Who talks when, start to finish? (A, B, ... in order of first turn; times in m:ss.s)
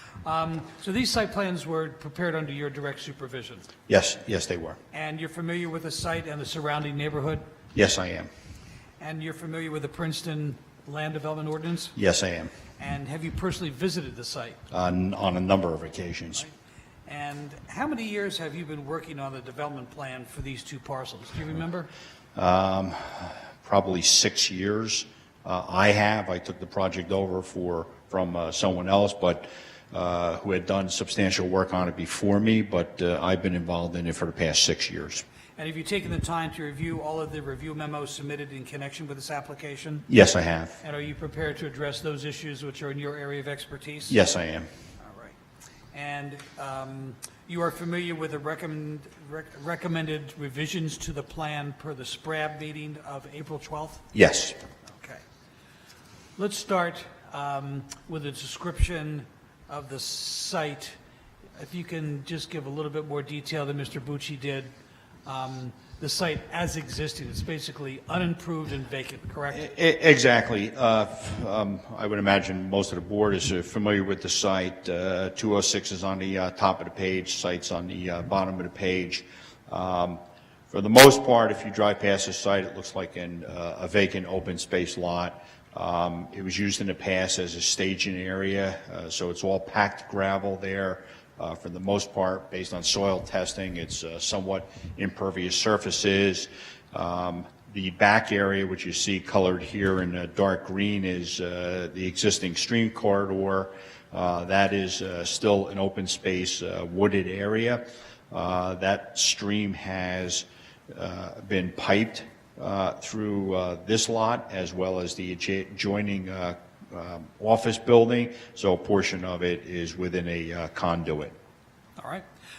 0:00.2-0:03.7 A
0:03.9-0:04.8 B
0:04.9-0:07.4 A
0:07.7-0:08.3 B
0:09.0-0:11.9 A
0:11.9-0:12.5 B
0:12.8-0:14.6 A
0:14.7-0:16.4 B
0:17.0-0:21.9 A
0:22.3-0:35.2 B
0:35.6-0:40.1 A
0:40.1-0:40.8 B
0:40.8-0:44.2 A
0:44.1-0:44.7 B
0:45.0-0:45.4 A
0:45.9-0:54.0 A
0:54.1-0:54.6 B
0:54.9-0:55.2 A
0:56.4-1:01.0 A
1:01.6-1:04.7 A
1:05.2-1:09.6 A
1:09.5-2:01.3 B
2:02.0-2:02.2 A